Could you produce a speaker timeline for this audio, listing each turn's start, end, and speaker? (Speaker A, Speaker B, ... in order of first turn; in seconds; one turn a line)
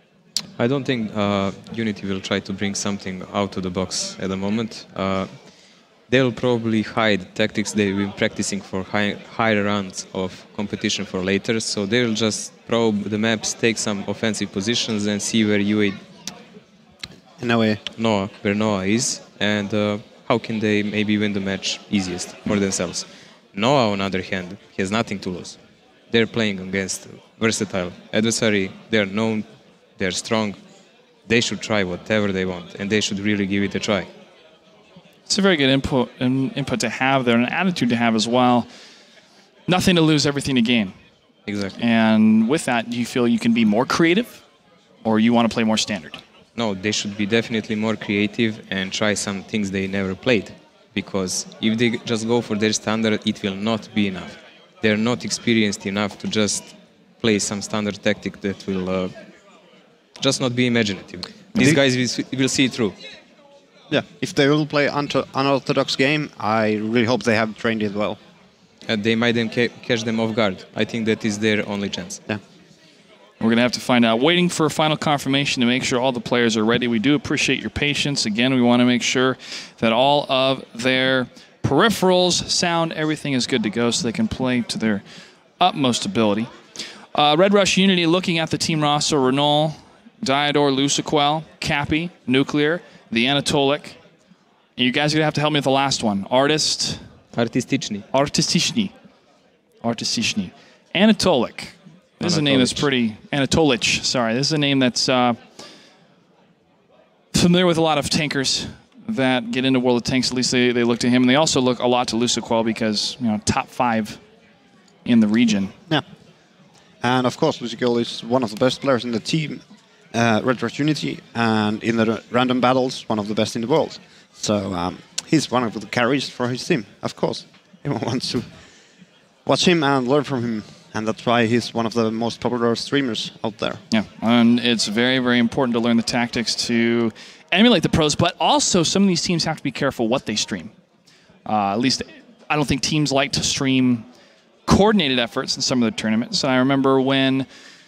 Speaker A: 0.6-5.3
Speaker A: 6.1-16.0
Speaker B: 17.4-17.8
Speaker A: 18.0-25.6
Speaker A: 26.1-29.5
Speaker A: 30.0-30.6
Speaker A: 31.3-34.1
Speaker C: 35.3-38.7
Speaker C: 39.7-40.9
Speaker A: 41.5-41.8
Speaker C: 41.8-44.4
Speaker C: 45.0-46.2
Speaker A: 46.6-59.1
Speaker A: 60.2-63.0
Speaker B: 63.9-68.2
Speaker A: 68.9-72.2
Speaker C: 73.4-85.0
Speaker C: 85.6-86.5
Speaker C: 87.2-94.0
Speaker C: 94.8-97.0
Speaker A: 97.3-98.1
Speaker C: 98.1-98.9
Speaker C: 99.8-105.4
Speaker A: 102.2-102.9
Speaker C: 107.3-114.2
Speaker C: 115.0-115.7
Speaker B: 117.0-119.6
Speaker B: 120.1-128.5
Speaker B: 129.5-133.8
Speaker C: 133.9-140.7
Speaker C: 141.5-144.1
Speaker C: 144.7-147.5